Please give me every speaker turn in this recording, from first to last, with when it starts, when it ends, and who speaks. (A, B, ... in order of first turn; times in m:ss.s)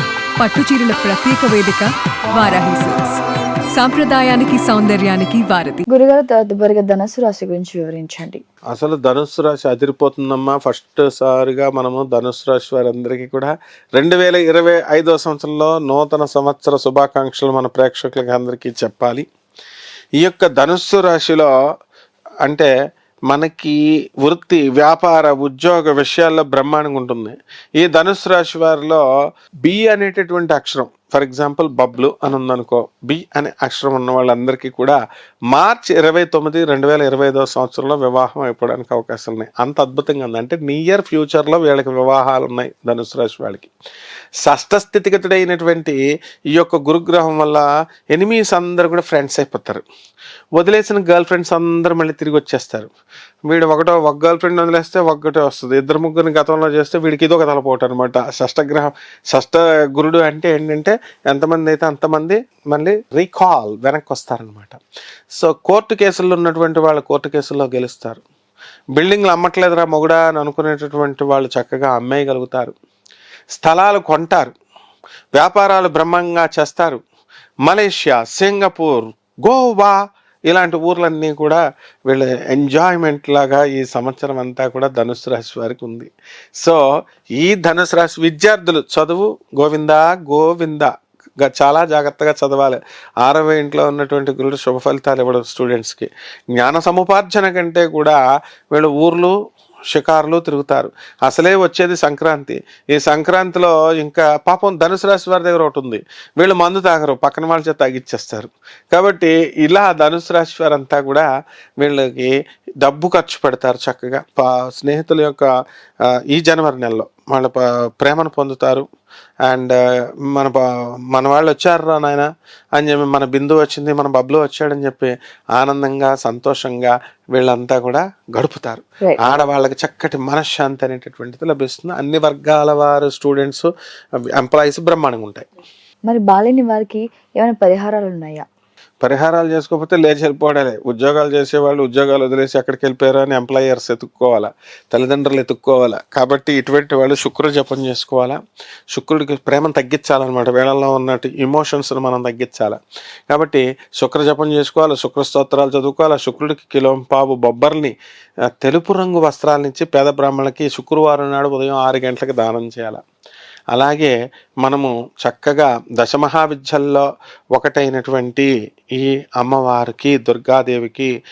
0:00.4-0:03.2 A
0:03.7-0:05.8 A
0:05.9-0:08.4 B
0:08.7-0:19.2 C
0:20.2-0:21.5 C
0:22.4-0:22.7 C
0:23.3-0:29.0 C
0:29.6-0:35.0 C
0:35.5-0:43.7 C
0:44.4-0:49.8 C
0:50.6-0:52.9 C
0:53.5-1:04.8 C
1:05.4-1:08.2 C
1:09.0-1:12.7 C
1:13.6-1:14.5 C
1:15.3-1:17.0 C
1:17.6-1:26.8 C
1:27.4-1:30.9 C
1:31.4-1:38.2 C
1:38.7-1:39.3 C
1:39.9-1:51.3 C
1:51.8-1:55.5 C
1:56.1-1:58.8 C
1:59.5-2:13.7 C
2:09.0-2:09.4 B
2:14.4-2:15.4 C
2:16.0-2:18.4 B
2:19.0-2:28.4 C
2:28.9-2:37.9 C
2:38.5-2:43.0 C
2:43.7-2:51.1 C